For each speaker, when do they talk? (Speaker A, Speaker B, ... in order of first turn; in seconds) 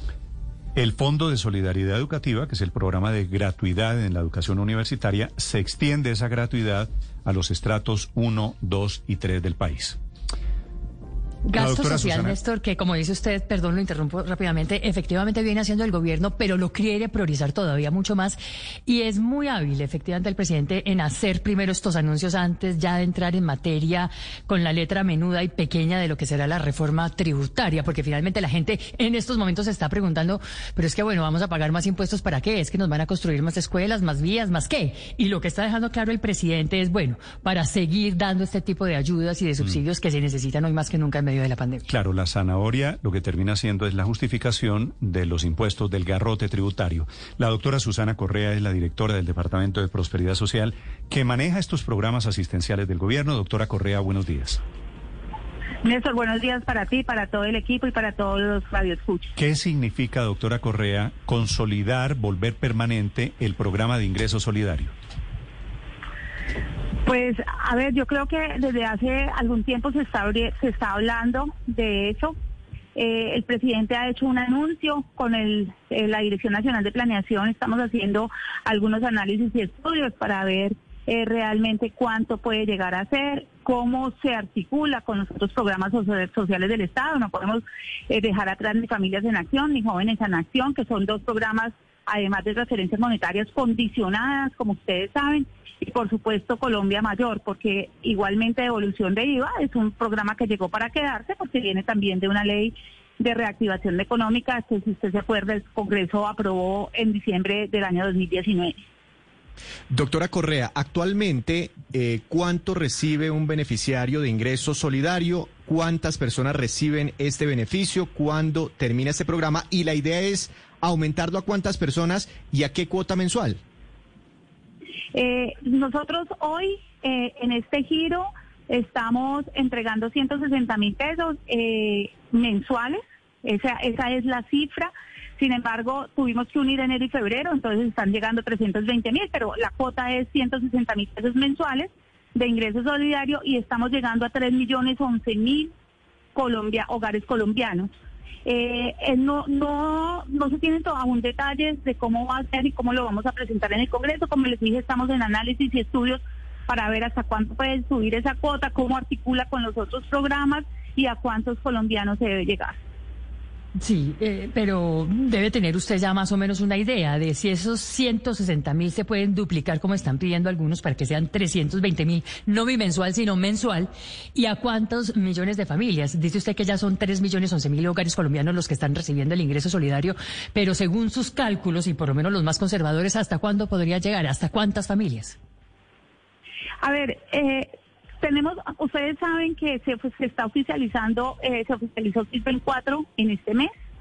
Speaker A: 0.8-10.0, 11.5-12.4, 41.9-54.6, 59.4-64.9
Speaker B: 11.4-41.9, 163.7-185.4
Speaker C: 55.8-59.3, 67.0-72.3, 72.9-108.8, 125.1-145.7, 146.3-147.9, 148.4-162.8, 186.8-193.7
Speaker D: 109.9-123.6